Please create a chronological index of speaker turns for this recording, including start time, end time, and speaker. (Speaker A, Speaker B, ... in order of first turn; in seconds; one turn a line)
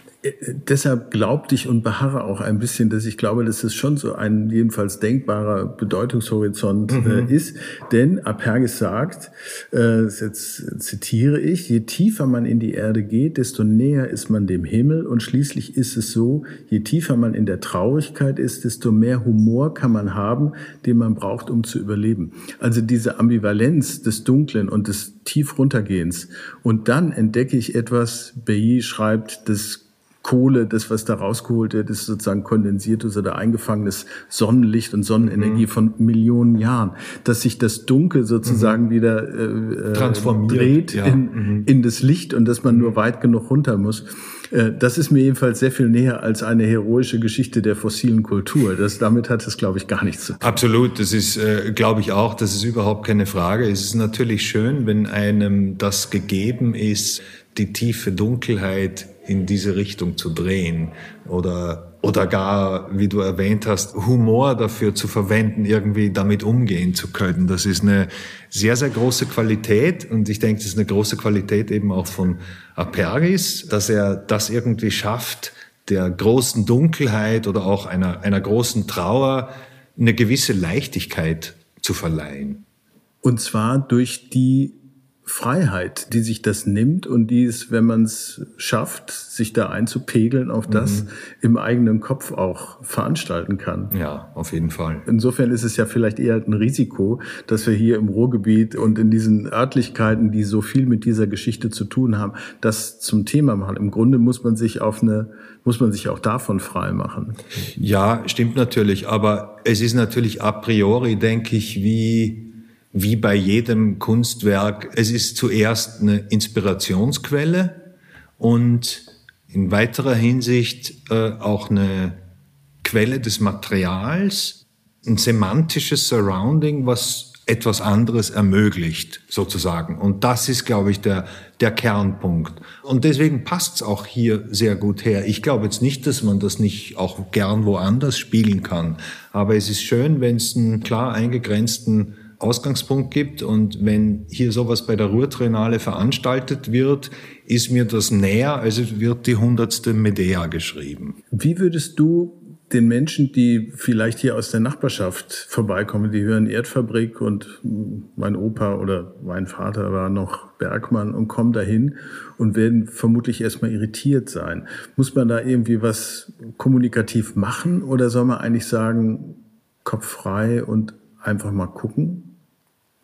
Speaker A: 0.2-50.6
Speaker B: 6.9-7.3
Speaker B: 35.2-35.6
Speaker B: 38.4-38.8
Speaker B: 39.9-41.7
Speaker B: 50.4-82.6
Speaker A: 83.2-93.9
Speaker B: 90.7-91.1
Speaker B: 93.9-95.0
Speaker A: 95.0-107.4
Speaker B: 107.8-117.8
Speaker B: 118.4-122.2
Speaker B: 122.8-151.2
Speaker A: 151.3-172.4